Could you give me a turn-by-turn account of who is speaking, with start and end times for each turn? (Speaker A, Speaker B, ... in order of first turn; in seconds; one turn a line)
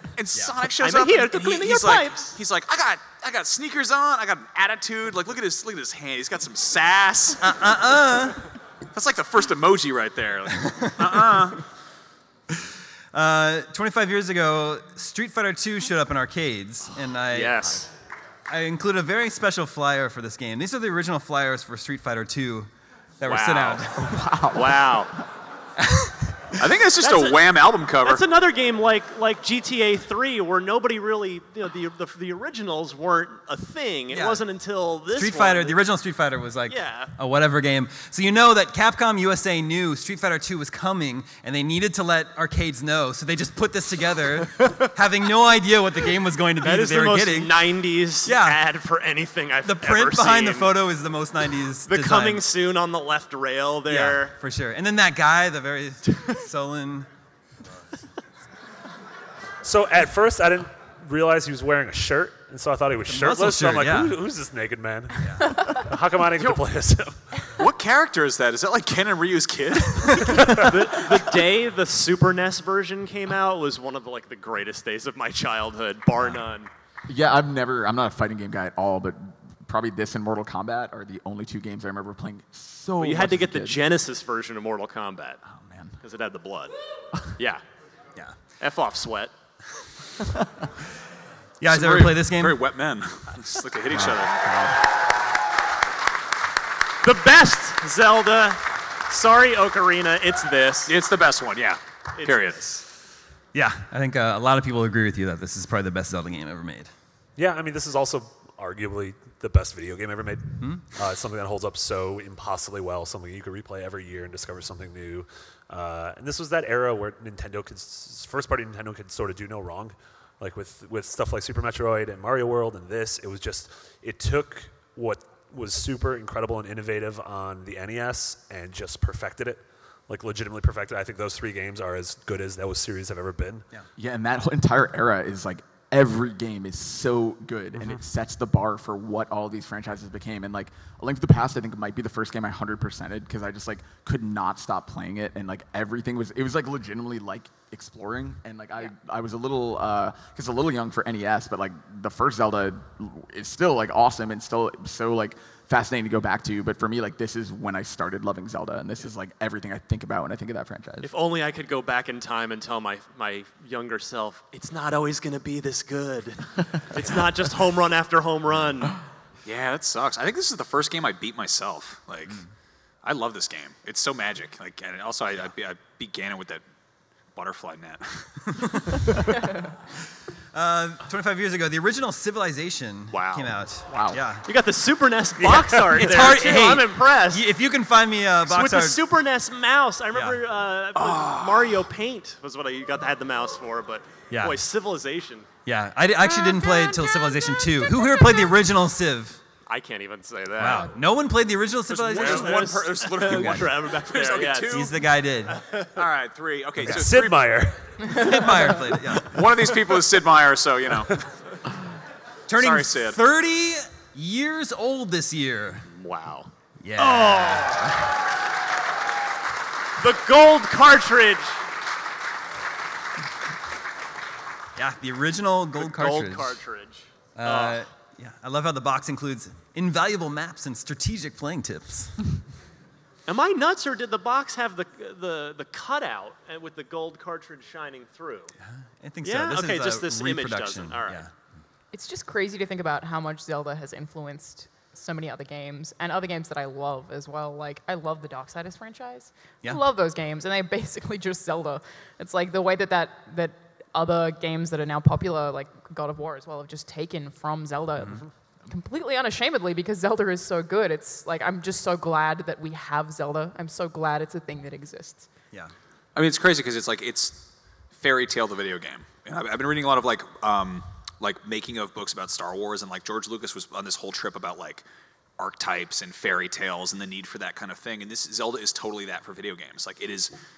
Speaker A: 0.1-7.7
Speaker B: 0.8-2.4
Speaker C: 7.4-8.4
Speaker A: 8.9-11.6
Speaker C: 10.6-11.2
Speaker C: 13.1-17.7
Speaker B: 17.3-17.9
Speaker C: 18.5-24.0
Speaker B: 23.2-23.9
Speaker D: 23.9-25.1
Speaker B: 24.5-25.1
Speaker C: 25.9-26.1
Speaker A: 26.6-28.2
Speaker B: 27.0-35.9
Speaker C: 34.1-34.4
Speaker C: 35.1-47.6
Speaker B: 36.7-37.1
Speaker B: 46.6-50.7
Speaker C: 48.2-48.6
Speaker C: 49.6-52.4
Speaker B: 51.9-54.3
Speaker C: 53.9-57.1
Speaker E: 59.6-67.2
Speaker C: 63.1-64.2
Speaker F: 65.5-65.8
Speaker A: 66.3-66.7
Speaker A: 67.6-71.3
Speaker B: 70.5-76.7
Speaker D: 77.1-83.8
Speaker B: 83.0-85.4
Speaker D: 85.5-86.0
Speaker B: 86.0-87.6
Speaker B: 88.6-89.3
Speaker C: 91.6-92.6
Speaker A: 91.7-94.5
Speaker D: 93.9-94.8
Speaker B: 97.0-100.9
Speaker A: 100.9-102.8
Speaker B: 102.2-102.8
Speaker C: 103.5-106.9
Speaker E: 107.4-133.7
Speaker D: 133.9-161.1
Speaker B: 161.0-169.0
Speaker A: 169.4-172.4
Speaker A: 173.0-176.6
Speaker A: 177.3-178.5
Speaker C: 178.5-179.0
Speaker C: 180.5-184.4
Speaker B: 183.1-187.4
Speaker D: 183.9-184.2
Speaker E: 185.5-186.1
Speaker C: 185.9-189.0
Speaker B: 188.4-195.5
Speaker C: 190.1-190.4
Speaker A: 190.9-191.7
Speaker C: 194.3-194.6
Speaker C: 195.7-199.4
Speaker F: 196.3-197.3
Speaker F: 197.8-198.4
Speaker B: 199.7-200.9
Speaker C: 200.6-203.7
Speaker A: 201.9-204.9
Speaker B: 202.1-204.9
Speaker C: 204.7-205.5
Speaker B: 205.5-205.9
Speaker A: 205.9-207.6
Speaker E: 206.8-207.9
Speaker F: 208.1-208.8
Speaker C: 208.1-209.3
Speaker A: 209.3-211.2
Speaker C: 212.5-215.8
Speaker A: 212.5-213.2
Speaker B: 215.9-218.1
Speaker C: 216.8-217.8
Speaker B: 220.0-221.6
Speaker C: 224.8-226.6
Speaker B: 225.8-227.8
Speaker C: 227.3-232.3
Speaker B: 233.2-238.5
Speaker C: 238.7-241.3
Speaker B: 239.2-241.2
Speaker F: 241.9-265.3
Speaker C: 258.0-258.2
Speaker A: 266.1-274.8
Speaker A: 275.4-280.3